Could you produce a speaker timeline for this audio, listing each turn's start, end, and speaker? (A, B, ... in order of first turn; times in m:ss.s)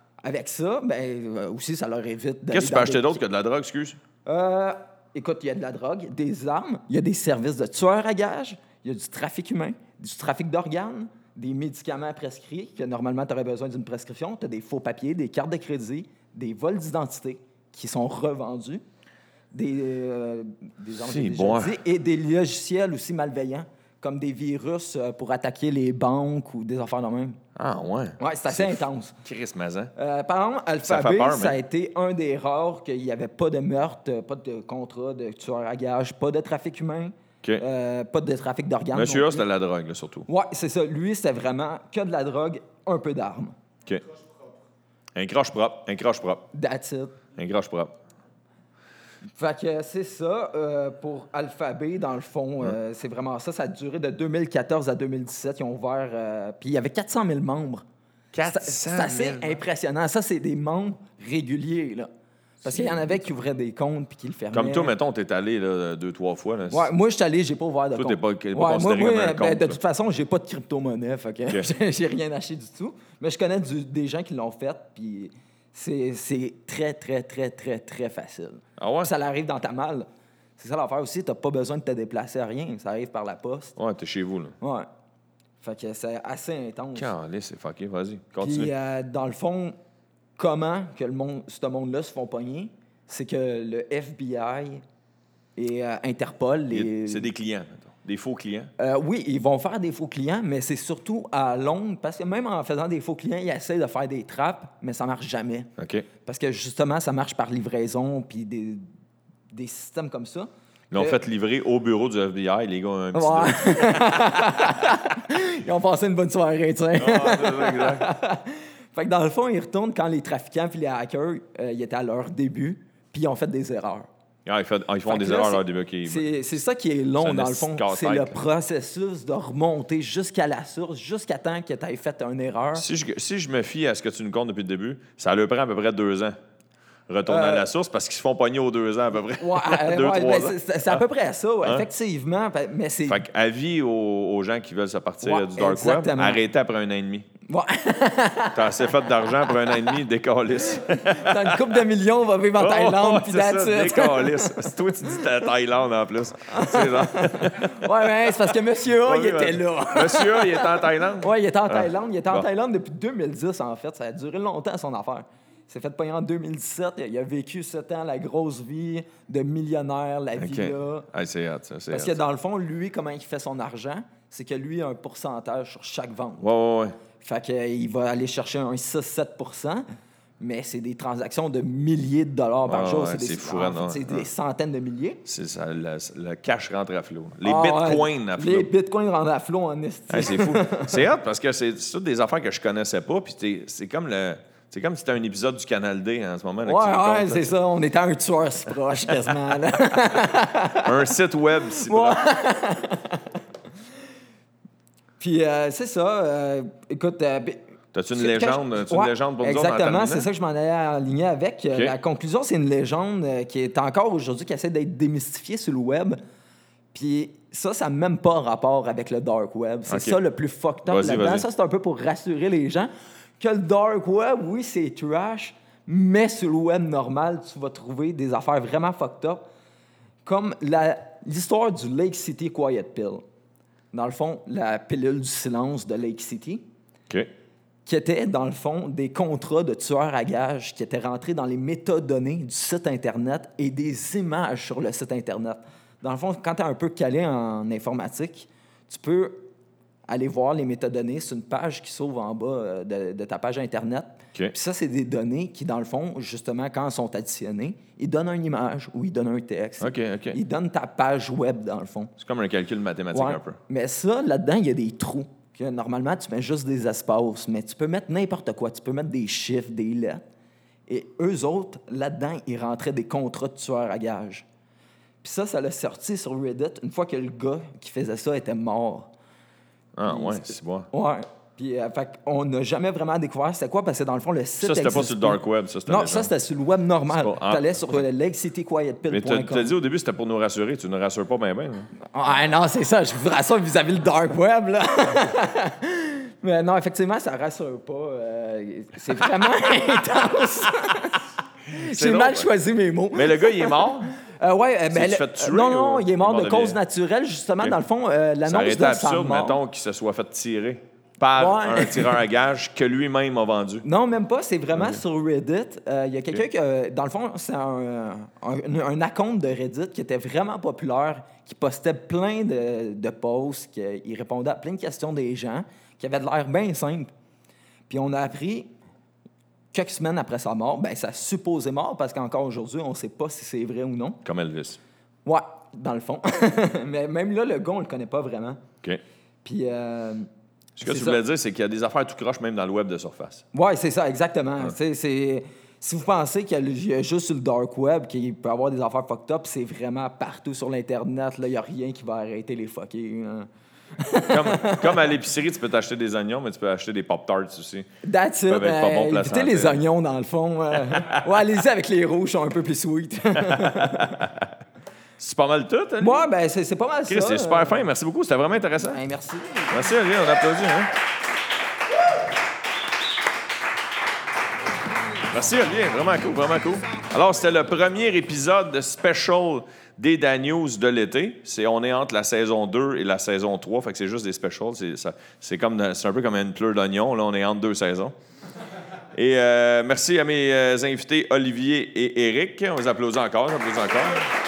0:00.2-0:03.2 A
0:02.5-0:04.0 B
0:04.2-0:18.8 A
0:19.5-0:27.4 A
0:21.0-0:21.8 B
0:27.6-0:29.9 B
0:28.2-0:29.1 A
0:30.0-0:39.4 A
0:30.8-0:31.6 B
0:38.9-0:40.3 B
0:40.3-0:43.5 A
0:45.2-0:46.4 B
0:46.5-0:47.2 A
0:47.4-0:48.0 B
0:49.4-0:57.8 A
0:58.3-0:59.6 B
0:58.4-1:02.1 A
1:02.6-1:03.3 B
1:02.6-1:04.9 A
1:04.5-1:06.9 B
1:06.7-1:20.0 A
1:08.0-1:09.8 B
1:18.8-1:19.1 B
1:20.6-1:23.8 A
1:23.8-1:24.5 B
1:24.6-1:24.9 A
1:25.6-1:27.1 A
1:26.9-1:28.7 B
1:28.4-1:29.8 A
1:30.4-1:34.8 A
1:35.6-1:37.3 A
1:36.7-1:38.7 B
1:38.8-1:48.9 A
1:45.8-1:46.0 B
1:49.5-1:51.2 A
1:50.9-1:53.9 B
1:53.1-2:04.1 A
1:57.0-1:58.0 B
2:04.4-2:06.2 B
2:05.0-2:12.8 A
2:07.2-2:08.4 B
2:12.8-2:16.4 B
2:17.1-2:20.6 B
2:17.3-2:17.7 A
2:19.4-2:23.2 A
2:23.1-2:27.3 B
2:25.2-2:26.4 A
2:27.5-2:28.9 A
2:28.5-2:31.7 B
2:29.5-2:30.0 A
2:30.7-2:34.7 A
2:32.6-2:37.9 B
2:36.5-2:51.1 A
2:39.0-2:42.4 B
2:50.4-2:52.2 B
2:51.9-2:56.4 A
2:56.4-2:57.0 B
2:57.2-2:59.8 A
3:00.4-3:05.2 A
3:02.7-3:04.3 B
3:05.2-3:08.7 B
3:07.4-3:11.0 A
3:10.1-3:17.5 B
3:16.6-3:21.1 A
3:20.8-3:22.2 B
3:21.7-3:23.3 A
3:25.2-3:27.6 A
3:27.9-3:30.3 B
3:28.1-3:36.2 A
3:36.9-3:49.4 A
3:39.9-3:40.2 B
3:40.8-3:41.4 B
3:50.2-3:53.2 A
3:53.9-3:56.6 A
3:57.8-4:09.5 A
4:10.1-4:22.1 A
4:19.8-4:20.4 B
4:22.2-4:23.6 B
4:23.1-4:30.2 A
4:30.9-4:34.4 A
4:35.2-4:39.1 A
4:40.0-4:40.9 B
4:40.0-4:49.8 A
4:44.6-4:46.3 B
4:47.1-4:48.0 B
4:49.1-4:51.9 B
4:52.1-5:09.6 A
5:01.7-5:02.5 B
5:03.1-5:04.1 B
5:04.9-5:06.8 B
5:08.4-5:13.8 B
5:11.4-5:12.2 A
5:13.8-5:27.1 A
5:14.7-5:15.0 B
5:27.9-5:28.7 A
5:29.7-5:34.2 A
5:34.2-5:34.8 B
5:35.2-5:38.6 A
5:39.4-5:40.3 A
5:40.8-5:43.4 B
5:40.8-5:41.2 A
5:43.5-5:55.1 A
5:54.3-5:57.9 B
5:58.0-6:04.2 A
5:58.5-5:59.8 B
6:00.8-6:01.2 B
6:03.4-6:04.5 B
6:05.2-6:06.2 B
6:06.0-6:07.8 A
6:07.1-6:09.0 B
6:08.9-6:09.8 A
6:09.7-6:10.9 B
6:15.3-6:28.2 B
6:29.1-6:34.2 B